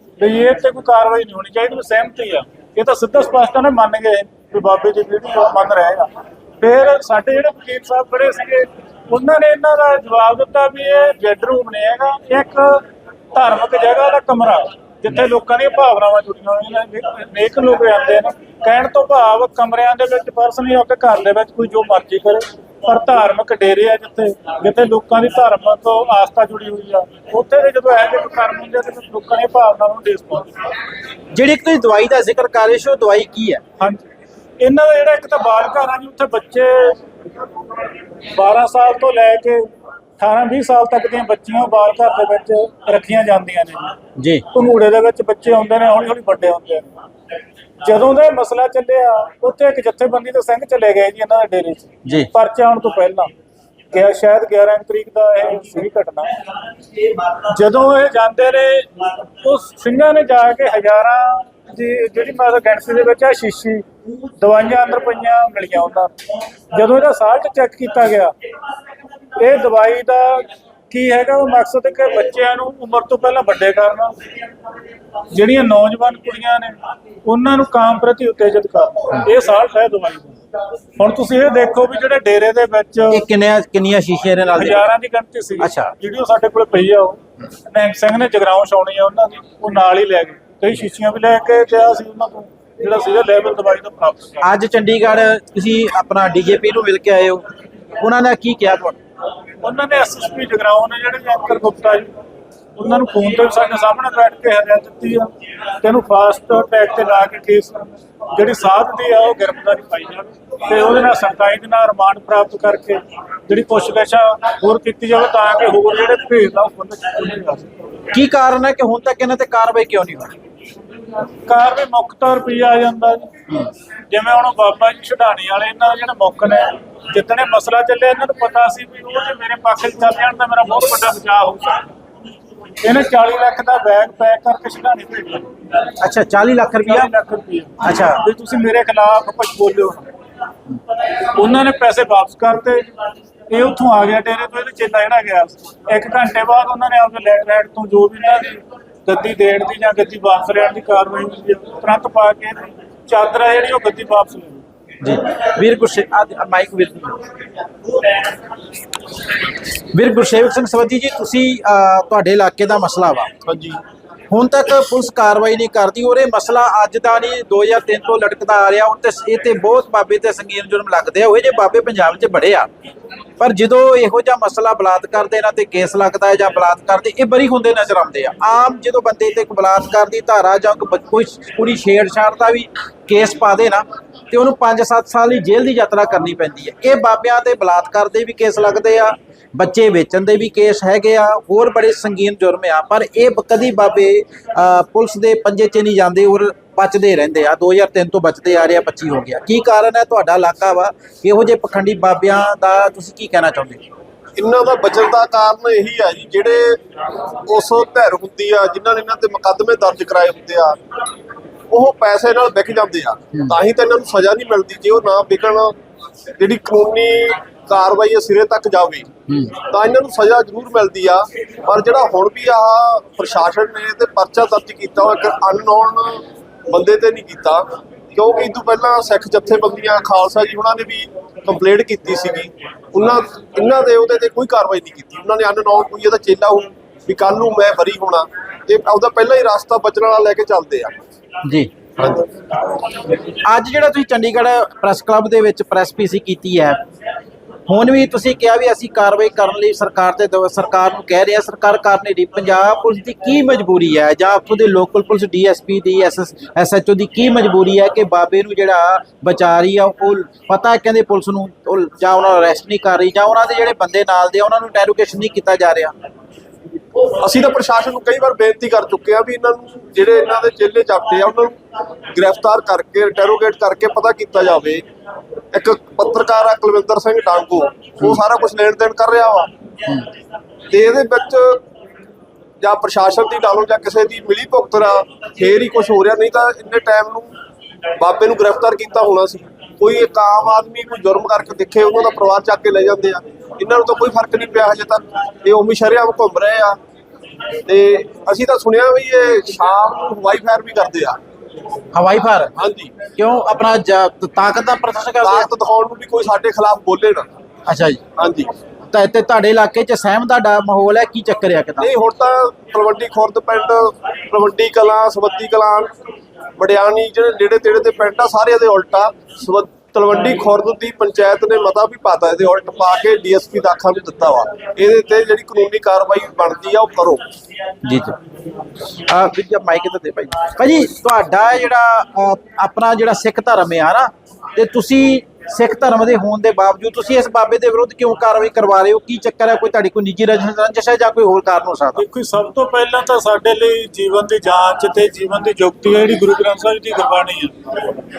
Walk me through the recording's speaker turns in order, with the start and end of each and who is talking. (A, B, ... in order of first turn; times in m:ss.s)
0:00.2-0:30.5 A
0:31.3-0:33.6 B
0:33.8-0:34.1 A
0:34.6-0:37.0 A
0:38.3-0:44.0 A
0:44.2-0:44.4 B
0:44.5-0:46.9 A
0:47.8-0:53.3 A
0:52.0-0:52.3 B
0:53.9-0:56.4 A
0:57.2-1:03.8 A
1:04.4-1:06.1 A
1:06.7-1:08.3 A
1:09.4-1:14.1 A
1:15.3-1:20.4 A
1:21.0-1:23.2 A
1:23.1-1:24.9 B
1:24.6-1:27.2 A
1:25.6-1:25.9 B
1:27.7-1:34.5 A
1:34.4-1:37.4 B
1:38.0-1:39.0 B
1:39.6-1:42.1 A
1:42.8-1:57.7 A
1:58.1-2:00.3 B
2:01.4-2:03.3 A
2:04.1-2:11.9 A
2:12.8-2:15.5 A
2:16.0-2:17.1 B
2:16.8-2:20.1 A
2:17.8-2:18.2 B
2:21.3-2:22.9 A
2:23.5-2:34.6 A
2:35.0-2:37.2 B
2:39.8-2:43.3 B
2:43.4-2:43.8 C
2:44.3-2:52.7 B
2:53.4-3:23.8 B
3:24.4-3:26.8 C
3:27.4-3:30.8 C
3:31.7-3:35.7 C
3:36.4-3:39.1 C
3:39.3-3:39.6 B
3:39.6-4:00.9 C
4:01.4-4:01.7 B
4:02.0-4:02.2 C
4:03.3-4:06.8 B
4:07.7-4:25.9 B
4:27.2-4:31.6 C
4:32.1-4:34.8 C
4:35.5-4:39.5 C
4:40.7-4:41.6 C
4:42.6-4:47.3 C
4:48.0-4:56.8 C
4:57.6-5:01.2 C
5:01.9-5:02.5 B
5:02.6-5:02.9 C
5:03.2-5:05.5 B
5:05.2-5:07.3 C
5:07.7-5:08.0 B
5:08.2-5:08.5 C
5:08.9-5:11.9 B
5:11.8-5:15.9 C
5:16.6-5:27.2 C
5:27.8-5:28.2 B
5:29.0-5:42.0 B
5:42.0-5:48.0 A